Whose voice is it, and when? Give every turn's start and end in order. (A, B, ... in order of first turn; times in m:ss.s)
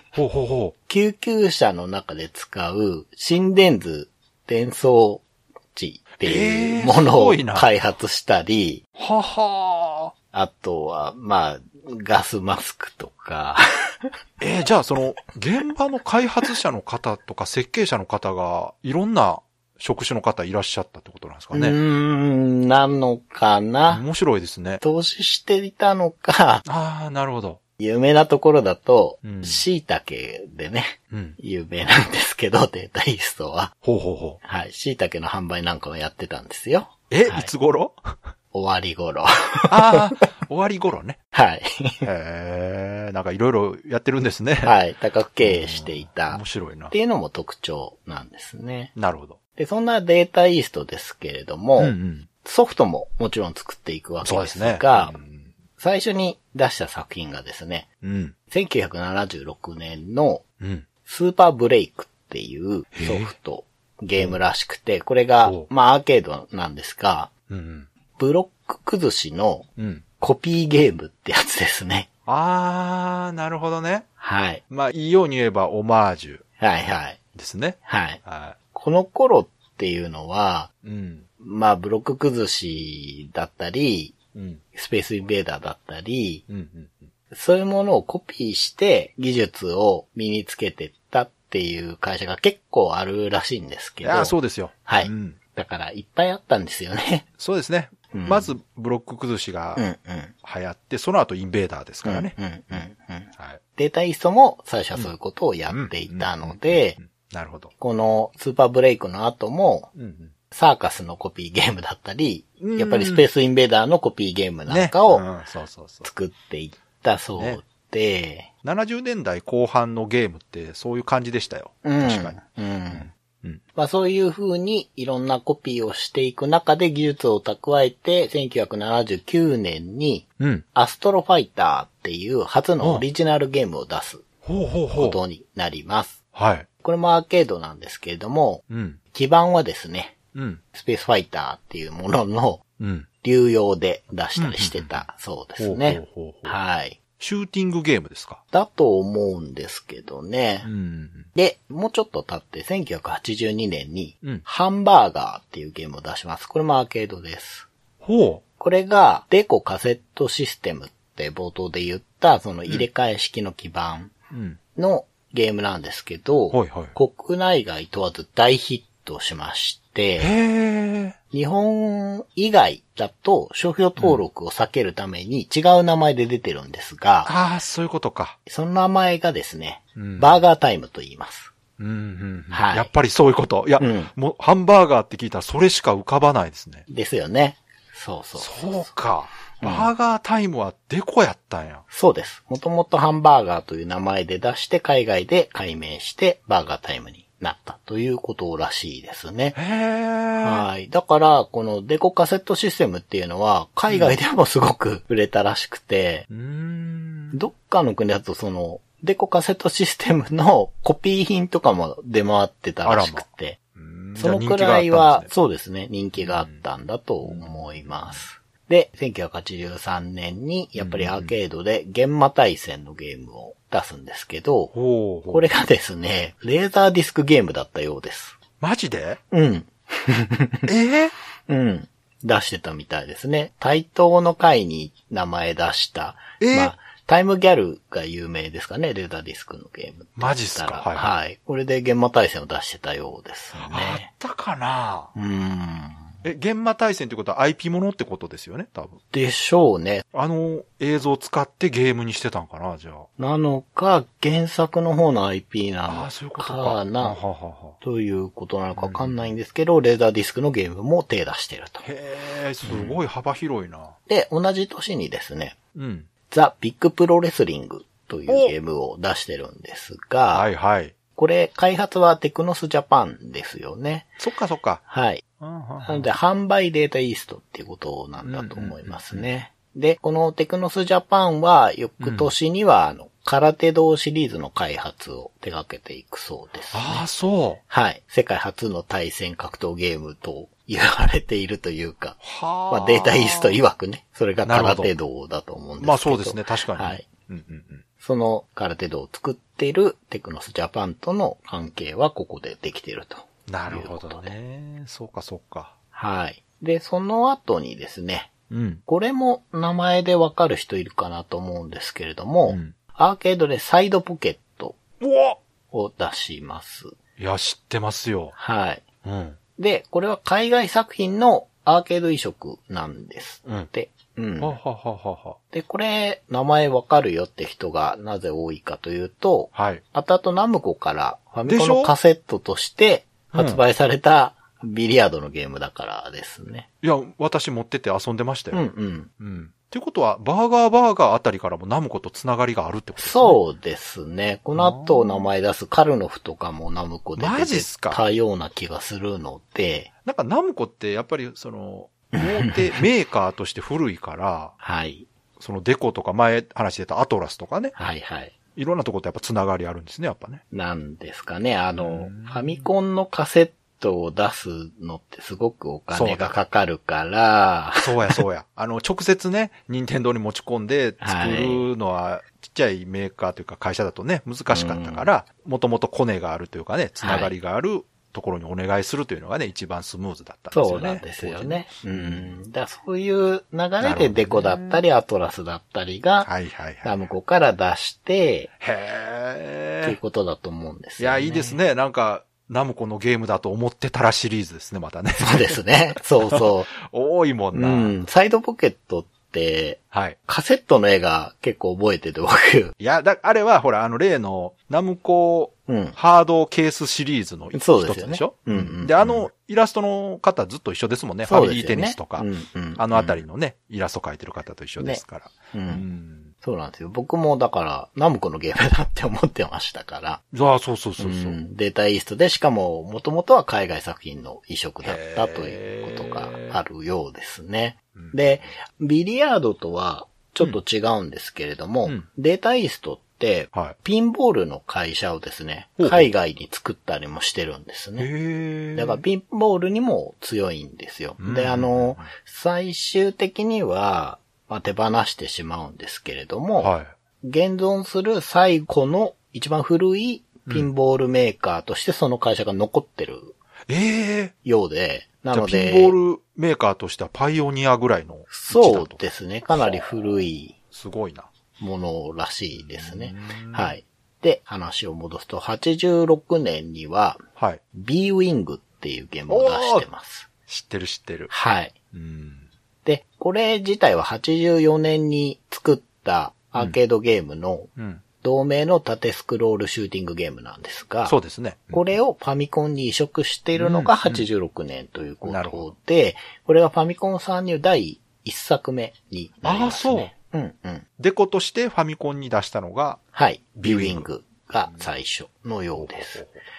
0:00.1-0:00.7 A
0:00.9-0:08.8 B
0:06.2-0:07.7 A
0:09.0-0:10.1 A
0:10.3-0:14.1 B
0:14.4-0:21.8 A
0:21.5-0:24.0 B
0:23.9-0:24.8 A
0:24.8-0:26.6 B
0:26.6-0:27.6 A
0:27.8-0:33.7 B
0:29.2-0:29.6 A
0:31.1-0:31.4 A
0:33.8-0:34.4 A
0:34.4-0:37.5 B
0:37.1-0:38.2 A
0:38.5-0:40.3 B
0:39.7-0:41.2 A
0:41.3-0:42.0 B
0:42.0-0:44.8 A
0:44.6-0:48.9 B
0:45.4-0:46.9 A
0:49.0-0:49.4 A
0:49.6-0:55.2 B
0:51.8-0:52.3 A
0:54.2-0:55.5 A
0:55.8-0:57.9 B
0:58.0-0:58.3 A
0:58.5-1:00.4 B
1:00.6-1:00.9 A
1:01.0-1:07.3 B
1:02.9-1:03.3 A
1:05.4-1:05.7 A
1:07.5-1:07.9 A
1:08.2-1:09.7 B
1:09.8-1:10.0 A
1:10.2-1:12.1 B
1:12.2-1:14.1 A
1:14.2-1:14.6 B
1:14.7-1:16.4 A
1:16.6-1:17.2 B
1:17.3-1:18.6 A
1:17.8-1:18.2 B
1:18.7-1:20.7 B
1:20.8-1:21.2 A
1:21.4-1:24.2 B
1:24.3-1:24.6 A
1:24.7-1:26.4 B
1:26.5-1:27.1 A
1:27.3-1:37.2 B
1:34.0-1:35.4 A
1:37.4-1:39.8 A
1:38.1-1:38.5 B
1:39.8-1:40.3 B
1:40.4-1:42.8 A
1:42.0-1:47.0 B
1:43.4-1:43.6 A
1:45.7-1:47.7 A
1:47.8-1:49.9 B
1:50.0-1:50.3 A
1:50.5-1:55.2 B
1:52.6-1:53.2 A
1:54.7-1:56.1 A
1:56.0-1:58.5 B
1:57.4-1:57.6 A
1:58.6-2:03.6 A
2:01.8-2:03.1 B
2:03.7-2:14.2 B
2:10.4-2:10.6 A
2:14.4-2:15.2 A
2:14.9-2:16.2 B
2:16.3-2:16.7 A
2:16.8-2:20.2 B
2:18.7-2:19.0 A
2:20.3-2:20.6 A
2:20.7-2:22.6 B
2:22.8-2:23.1 A
2:23.2-2:27.0 B
2:24.4-2:25.0 A
2:25.6-2:26.6 A
2:27.2-2:28.4 A
2:28.5-2:30.7 B
2:30.6-2:31.3 A
2:31.3-2:37.7 B
2:38.0-2:38.4 A
2:38.6-2:44.2 B
2:44.3-2:44.6 A
2:44.7-2:50.3 B
2:46.5-2:46.9 A
2:50.2-2:51.1 A
2:51.3-2:57.3 B
2:54.0-2:54.2 A
2:57.2-2:58.4 A
2:58.4-3:01.5 B
3:00.0-3:00.4 A
3:01.8-3:06.8 A
3:02.5-3:02.9 B
3:03.8-3:04.1 B
3:06.9-3:08.9 B
3:08.4-3:11.8 A
3:09.6-3:09.9 B
3:11.9-3:19.6 B
3:19.5-3:20.6 A
3:20.4-3:26.2 B
3:23.9-3:24.2 A
3:26.3-3:27.4 A
3:27.3-3:33.6 B
3:32.8-3:33.2 A
3:33.8-3:35.3 A
3:34.2-3:44.7 B
3:36.2-3:36.6 A
3:37.2-3:38.2 A
3:40.8-3:41.3 A
3:44.7-3:45.4 A
3:45.3-3:48.4 B
3:48.6-3:49.2 A
3:49.3-3:50.7 B
3:50.7-3:51.1 A
3:51.5-4:04.1 B
3:56.4-3:56.7 A
4:00.2-4:01.1 A
4:03.6-4:05.1 A
4:05.1-4:06.1 B
4:06.2-4:09.0 A
4:09.1-4:10.0 B
4:10.1-4:13.1 A
4:13.2-4:17.2 B
4:15.8-4:17.8 A
4:17.8-4:21.8 B
4:18.8-4:19.3 A
4:21.8-4:23.9 A
4:22.6-4:23.0 B
4:24.1-4:25.5 B
4:25.7-4:26.1 A
4:26.3-4:30.5 B
4:28.3-4:28.5 A
4:30.3-4:30.9 A
4:31.2-4:34.2 B
4:34.2-4:34.8 A
4:34.9-4:35.2 B
4:35.4-4:36.1 A
4:35.8-4:47.0 B
4:38.2-4:39.2 A
4:42.0-4:42.3 A
4:46.7-4:47.6 A
4:47.7-4:57.0 B
4:52.2-4:53.6 A
4:54.4-4:54.9 A
4:55.8-4:57.8 A
4:58.0-5:04.3 B
5:03.5-5:05.7 A
5:05.9-5:08.3 B
5:08.5-5:08.8 A
5:08.8-5:14.8 B
5:12.5-5:12.7 A
5:15.0-5:15.4 A
5:15.7-5:16.9 B
5:17.2-5:18.3 A
5:18.4-5:18.8 B
5:19.0-5:19.4 A
5:19.6-5:24.6 B
5:24.4-5:25.4 A
5:25.5-5:36.7 B
5:29.5-5:29.8 A
5:31.5-5:31.9 A
5:33.3-5:33.6 A
5:36.8-5:38.6 A
5:38.5-5:39.1 B
5:39.2-5:43.4 A
5:43.0-5:49.9 B
5:44.5-5:45.3 A
5:47.2-5:48.0 A
5:50.0-5:54.5 A
5:52.1-5:52.8 B
5:54.6-5:55.1 B
5:55.4-5:57.7 A
5:57.8-5:58.3 B
5:58.5-6:00.4 A
6:00.5-6:08.2 B
6:01.8-6:02.7 A
6:05.9-6:06.4 A
6:07.8-6:22.4 A
6:11.0-6:11.7 B
6:14.5-6:15.1 B
6:17.0-6:17.3 B
6:20.5-6:26.3 B
6:23.8-6:24.8 A
6:26.2-6:27.0 A
6:26.8-6:28.5 B
6:28.6-6:30.0 A
6:29.8-6:31.6 B
6:31.0-6:35.6 A
6:35.2-6:36.7 B
6:36.2-6:38.0 A
6:37.5-6:42.7 B
6:39.9-6:40.2 A
6:42.8-6:56.3 A
6:45.7-6:46.0 B
6:47.5-6:49.3 B
6:51.3-6:53.2 B
6:54.8-6:55.8 B
6:56.4-7:00.2 B
7:00.3-7:01.4 A
7:01.0-7:18.1 B
7:04.8-7:06.6 A
7:07.9-7:08.2 A
7:15.8-7:16.1 A
7:18.0-7:19.0 A
7:18.7-7:33.3 B
7:21.2-7:22.1 A
7:26.6-7:26.9 A
7:33.7-7:34.3 A
7:34.4-7:36.0 B
7:35.3-7:40.0 A
7:38.3-7:40.6 B
7:40.5-7:41.3 A
7:41.6-7:47.2 B
7:42.5-7:43.7 A
7:47.4-7:47.6 A
7:47.7-7:50.3 B
7:49.3-7:49.9 A
7:50.5-7:51.3 A
7:51.3-7:51.7 B
7:51.9-7:52.5 A
7:52.8-8:01.2 B
7:57.8-7:58.0 A
8:01.0-8:01.8 A
8:01.7-8:10.8 B
8:03.6-8:04.3 A
8:05.2-8:05.7 A
8:09.4-8:10.1 A
8:11.0-8:13.0 A
8:13.1-8:16.2 B
8:13.6-8:14.1 A
8:14.6-8:14.9 A
8:15.8-8:16.4 A